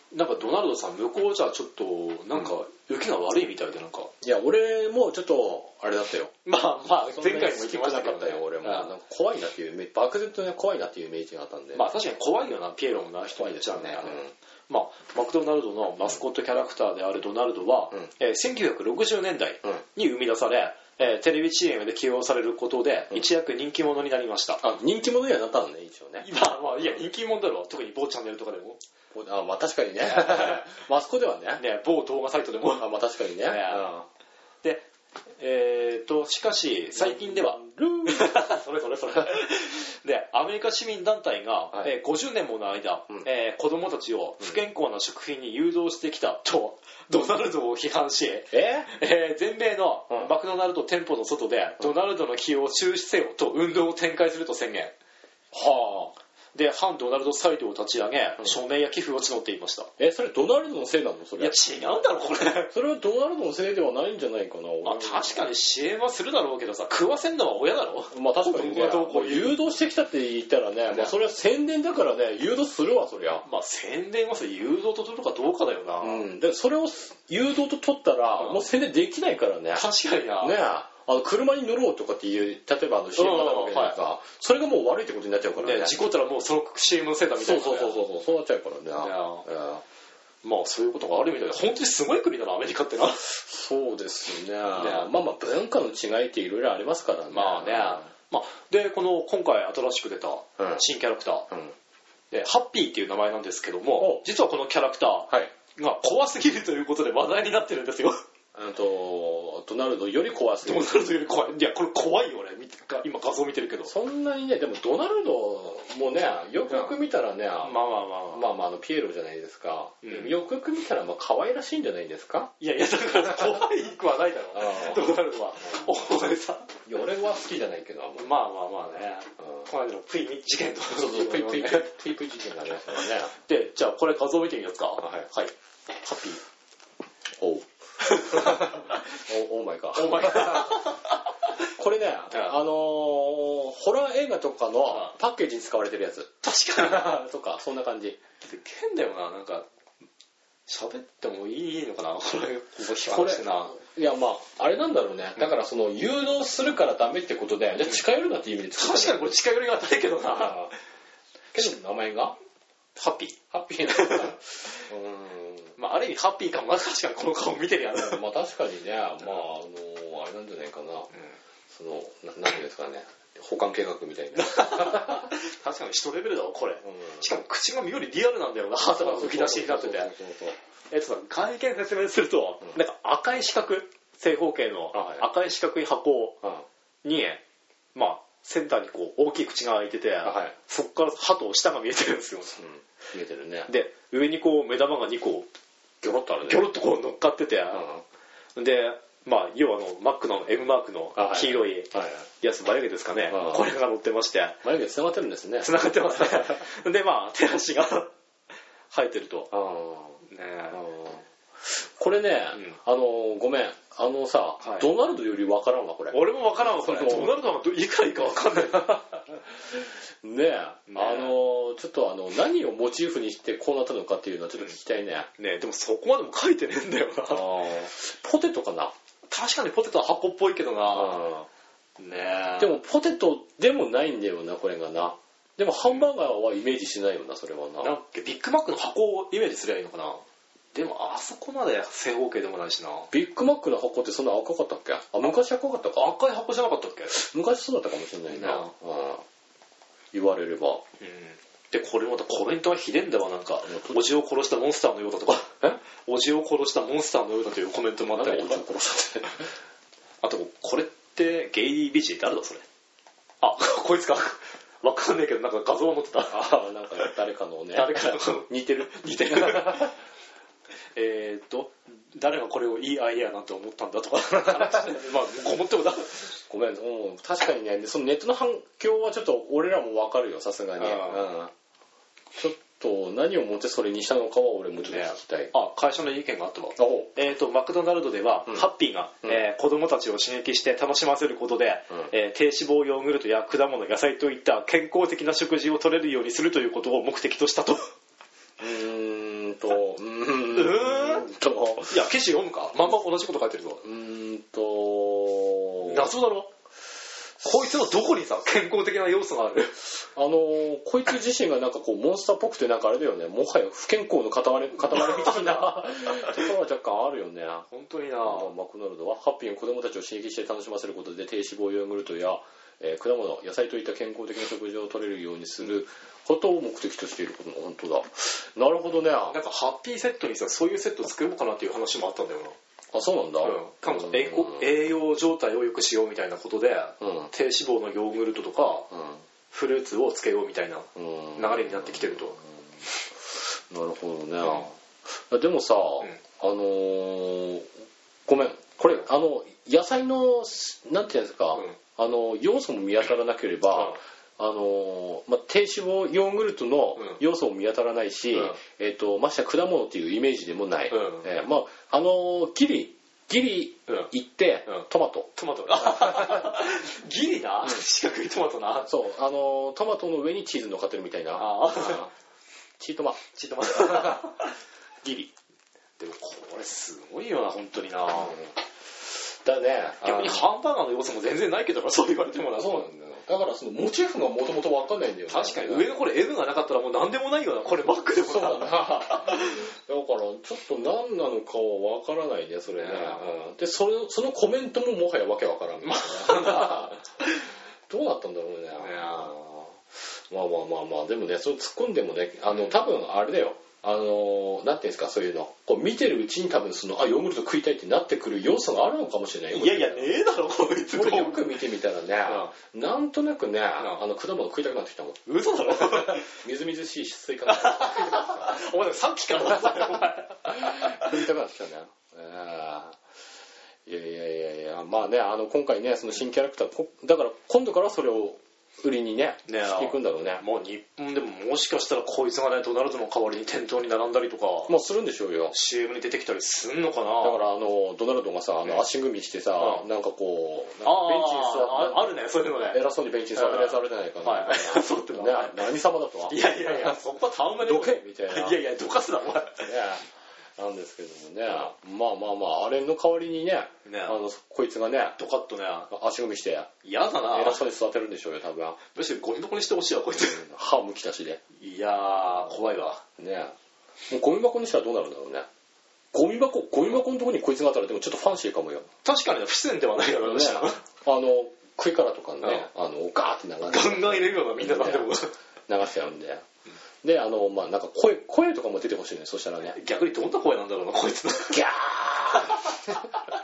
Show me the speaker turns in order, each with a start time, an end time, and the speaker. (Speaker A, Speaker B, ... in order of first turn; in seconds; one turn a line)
Speaker A: 0.1-4.1
Speaker B: 4.2-6.3
Speaker A: 6.5-8.9
Speaker B: 7.1-11.9
Speaker A: 11.8-24.6
Speaker B: 13.4-14.3
Speaker B: 24.6-26.3
Speaker A: 26.2-28.8
Speaker B: 29.1-31.6
Speaker A: 30.0-30.6
Speaker A: 31.6-33.9
Speaker B: 32.8-34.1
Speaker A: 34.6-34.9
Speaker A: 35.4-54.9
Speaker B: 37.0-38.4
Speaker B: 48.5-48.9
Speaker B: 55.5-56.1
Speaker A: 56.5-59.9
Speaker B: 60.0-61.6
Speaker A: 61.4-62.7
Speaker B: 62.7-65.4
Speaker A: 64.8-69.6
Speaker B: 68.1-73.5
Speaker A: 73.4-76.2
Speaker B: 76.0-79.8
Speaker A: 78.4-78.6
Speaker A: 79.7-80.6
Speaker B: 80.4-86.0
Speaker A: 83.2-84.0
Speaker A: 85.6-88.0
Speaker B: 87.4-89.8
Speaker A: 89.0-89.5
Speaker A: 90.4-93.2
Speaker B: 93.3-98.1
Speaker A: 94.7-95.1
Speaker A: 97.3-101.5
Speaker B: 100.6-100.8
Speaker B: 101.5-101.8
Speaker A: 102.3-108.2
Speaker B: 104.0-104.2
Speaker B: 108.5-111.2
Speaker A: 110.6-113.9
Speaker B: 113.9-117.8
Speaker A: 116.7-116.9
Speaker A: 117.6-118.5
Speaker B: 118.3-122.5
Speaker A: 120.0-120.4
Speaker A: 122.6-126.7
Speaker B: 124.5-125.1
Speaker B: 126.9-128.3
Speaker A: 128.2-131.9
Speaker B: 129.4-129.7
Speaker B: 130.9-133.3
Speaker A: 133.3-135.5
Speaker B: 135.0-135.3
Speaker A: 136.0-136.4
Speaker B: 137.4-140.9
Speaker A: 138.0-139.0
Speaker A: 139.9-141.1
Speaker B: 141.6-148.2
Speaker A: 146.4-147.2
Speaker A: 148.4-149.7
Speaker A: 150.7-153.8
Speaker B: 153.0-159.3
Speaker A: 158.8-160.6
Speaker B: 160.3-160.7
Speaker B: 161.5-162.4
Speaker A: 163.0-164.8
Speaker B: 163.5-165.8
Speaker A: 165.8-168.2
Speaker B: 168.0-171.1
Speaker B: 171.7-175.3
Speaker A: 174.4-180.1
Speaker B: 176.8-177.2
Speaker B: 178.8-180.6
Speaker A: 180.9-186.4
Speaker B: 184.9-185.2
Speaker A: 187.0-187.4
Speaker A: 187.9-192.6
Speaker B: 190.2-190.5
Speaker B: 192.6-193.7
Speaker A: 193.7-195.5
Speaker B: 196.0-196.7
Speaker A: 196.4-197.8
Speaker B: 197.7-198.0
Speaker A: 198.6-204.6
Speaker B: 201.2-202.3
Speaker B: 203.3-203.7
Speaker B: 204.6-206.5
Speaker A: 205.6-208.1
Speaker A: 208.9-209.5
Speaker B: 209.5-217.4
Speaker A: 210.3-210.8
Speaker A: 214.6-214.9
Speaker A: 216.1-219.2
Speaker B: 218.8-225.3
Speaker A: 220.9-221.4
Speaker A: 225.4-227.7
Speaker B: 227.3-228.9
Speaker A: 229.3-231.3
Speaker B: 230.9-231.5
Speaker A: 232.0-232.8
Speaker B: 232.6-237.9
Speaker A: 237.8-240.2
Speaker A: 240.7-243.1
Speaker B: 243.1-246.1
Speaker A: 246.0-247.2
Speaker B: 247.1-249.2
Speaker A: 248.3-248.7
Speaker B: 250.1-250.8
Speaker A: 251.0-258.7
Speaker B: 258.1-259.3
Speaker A: 260.2-262.6
Speaker A: 263.4-267.1
Speaker B: 266.3-269.9
Speaker A: 267.7-269.9
Speaker A: 270.9-276.3
Speaker B: 274.6-275.0
Speaker B: 276.5-281.5
Speaker A: 280.8-281.3
Speaker B: 282.3-285.5
Speaker A: 284.9-297.9
Speaker B: 286.8-287.1
Speaker B: 298.6-302.1
Speaker A: 300.5-301.3
Speaker A: 301.9-303.8
Speaker B: 303.8-306.1
Speaker A: 305.8-306.5
Speaker B: 307.4-307.7
Speaker A: 307.4-309.8
Speaker B: 310.0-317.7
Speaker A: 314.8-316.3
Speaker A: 317.7-318.5
Speaker B: 318.2-329.4
Speaker A: 329.3-332.6
Speaker B: 332.9-334.7
Speaker A: 333.4-338.9
Speaker B: 337.0-337.3
Speaker B: 338.9-339.2
Speaker A: 339.5-342.4
Speaker B: 340.9-342.4
Speaker B: 343.2-347.7
Speaker B: 348.3-366.6
Speaker A: 360.9-361.3
Speaker A: 364.7-368.9
Speaker B: 368.9-372.1
Speaker A: 371.4-372.1
Speaker B: 372.8-374.3
Speaker A: 373.3-374.5
Speaker B: 375.0-375.3
Speaker A: 376.0-378.4
Speaker B: 378.1-378.5
Speaker B: 379.4-380.5
Speaker A: 380.0-382.9
Speaker B: 382.6-385.9
Speaker A: 385.3-389.7
Speaker B: 388.2-397.0
Speaker A: 392.7-393.2
Speaker A: 395.8-397.0
Speaker B: 397.9-399.8
Speaker A: 398.8-399.3
Speaker B: 400.3-410.2
Speaker A: 409.5-411.6
Speaker B: 410.9-418.5
Speaker A: 415.3-416.4
Speaker A: 417.5-421.2
Speaker B: 419.5-423.0
Speaker B: 423.9-430.4
Speaker A: 429.5-434.8
Speaker B: 434.7-435.5
Speaker A: 435.5-437.4
Speaker B: 437.2-447.0
Speaker A: 439.6-439.9
Speaker A: 440.8-445.7
Speaker A: 446.3-449.7
Speaker B: 447.6-448.6
Speaker B: 449.6-455.2
Speaker A: 453.9-454.2
Speaker A: 455.2-455.9
Speaker B: 455.9-456.7
Speaker A: 456.8-457.6
Speaker B: 457.2-458.8
Speaker A: 458.9-460.4
Speaker B: 460.2-461.4
Speaker A: 461.6-463.0
Speaker B: 463.2-463.6
Speaker B: 464.1-465.5
Speaker B: 466.1-468.9
Speaker A: 469.0-470.8
Speaker B: 470.2-475.1
Speaker A: 473.7-475.3
Speaker B: 475.7-476.4
Speaker B: 477.0-479.8
Speaker A: 479.7-481.7
Speaker B: 481.5-483.0
Speaker A: 482.3-482.9